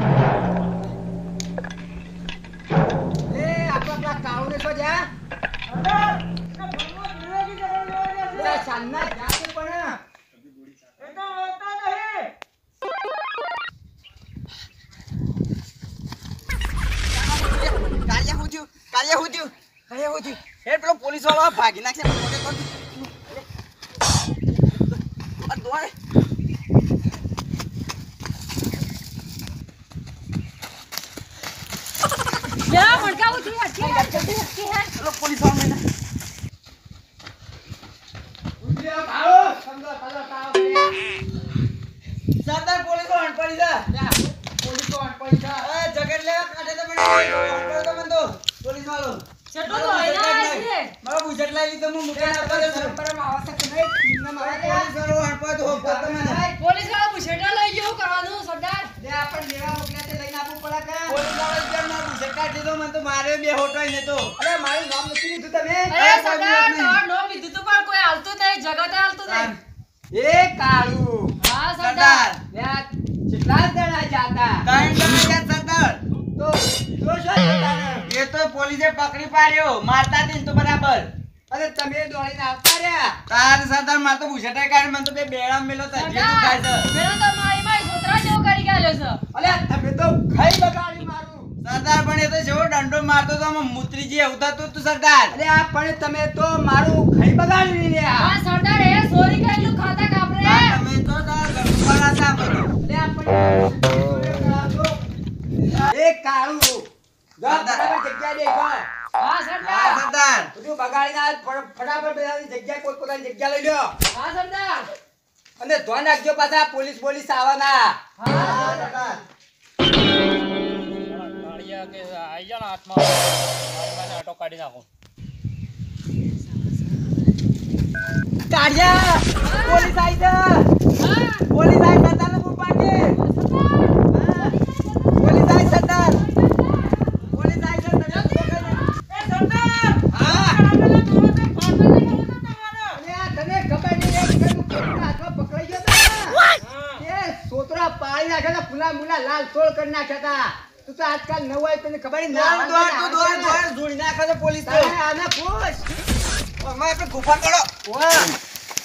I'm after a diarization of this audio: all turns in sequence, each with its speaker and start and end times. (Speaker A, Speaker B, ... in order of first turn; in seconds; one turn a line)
Speaker A: 3.3-5.1
Speaker B: 6.6-8.5
Speaker A: 8.3-10.0
Speaker B: 11.0-12.3
Speaker C: 17.1-23.0
Speaker C: 25.4-25.9
Speaker D: 32.6-34.9
Speaker A: 33.8-34.3
Speaker C: 35.0-35.8
Speaker A: 38.6-41.0
Speaker C: 42.4-43.9
Speaker A: 43.9-45.7
Speaker C: 45.6-53.0
Speaker D: 49.5-50.9
Speaker A: 52.1-54.9
Speaker C: 54.4-56.4
Speaker A: 55.6-56.5
Speaker D: 56.5-58.9
Speaker A: 59.0-61.2
Speaker C: 61.1-64.3
Speaker A: 64.4-65.9
Speaker D: 65.9-69.5
Speaker C: 65.9-67.0
Speaker C: 69.3-69.6
Speaker A: 70.1-71.3
Speaker D: 71.4-72.2
Speaker C: 71.8-72.4
Speaker A: 72.5-74.7
Speaker C: 74.6-76.0
Speaker A: 76.3-78.1
Speaker C: 78.0-81.1
Speaker A: 81.5-83.2
Speaker C: 83.3-86.9
Speaker D: 85.9-89.2
Speaker A: 89.3-91.5
Speaker C: 91.6-95.3
Speaker A: 95.3-98.4
Speaker D: 98.2-100.8
Speaker C: 100.4-102.7
Speaker A: 102.8-105.0
Speaker A: 105.7-106.9
Speaker A: 107.4-108.9
Speaker C: 107.5-107.9
Speaker D: 109.2-110.0
Speaker C: 109.6-110.5
Speaker A: 110.5-113.9
Speaker D: 114.1-114.9
Speaker A: 115.6-119.2
Speaker D: 118.2-118.7
Speaker C: 118.4-119.1
Speaker B: 121.0-124.8
Speaker A: 128.5-129.2
Speaker C: 128.6-128.8
Speaker D: 129.4-129.9
Speaker C: 129.5-130.7
Speaker D: 130.9-131.5
Speaker C: 131.5-133.2
Speaker D: 133.1-137.0
Speaker C: 134.1-134.4
Speaker C: 135.2-136.2
Speaker C: 137.3-138.8
Speaker D: 138.2-138.7
Speaker B: 138.9-143.0
Speaker A: 140.1-140.6
Speaker A: 142.9-146.4
Speaker B: 146.6-147.0
Speaker A: 147.0-153.6
Speaker C: 152.3-154.9
Speaker A: 154.6-155.9
Speaker C: 156.6-157.7
Speaker A: 157.8-158.3